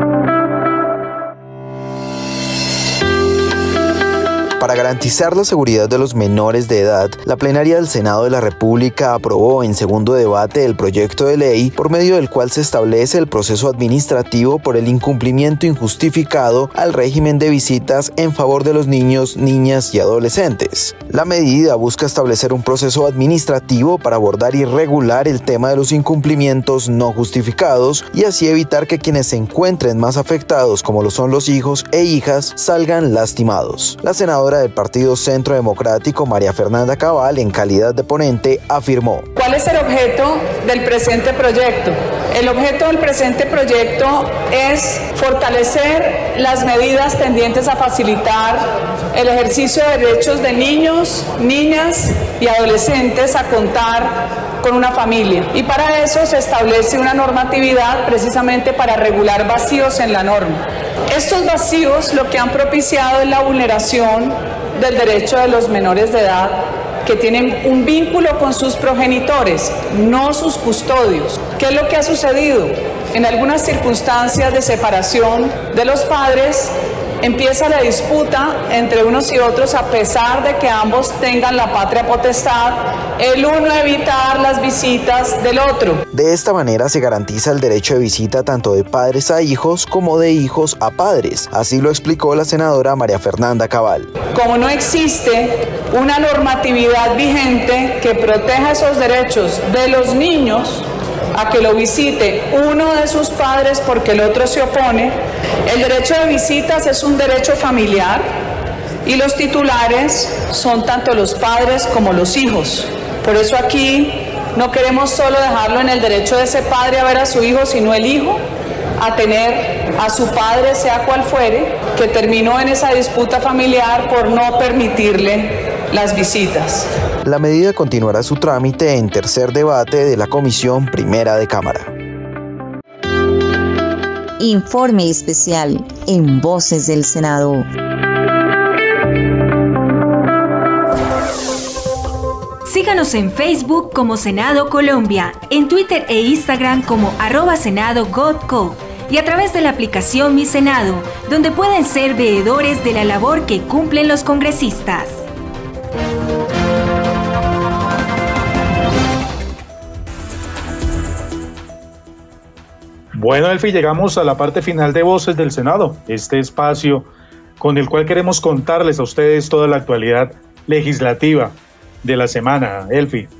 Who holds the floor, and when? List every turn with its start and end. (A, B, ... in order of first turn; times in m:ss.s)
0:04.6-0:39.3 A
0:39.4-1:26.0 B
1:26.1-1:34.2 A
1:34.2-1:48.3 B
1:49.0-1:58.4 B
1:59.0-2:06.9 B
2:07.2-2:11.9 A
2:14.4-2:17.7 C
2:22.7-2:35.2 D
2:43.1-2:47.1 E
2:47.6-2:53.3 E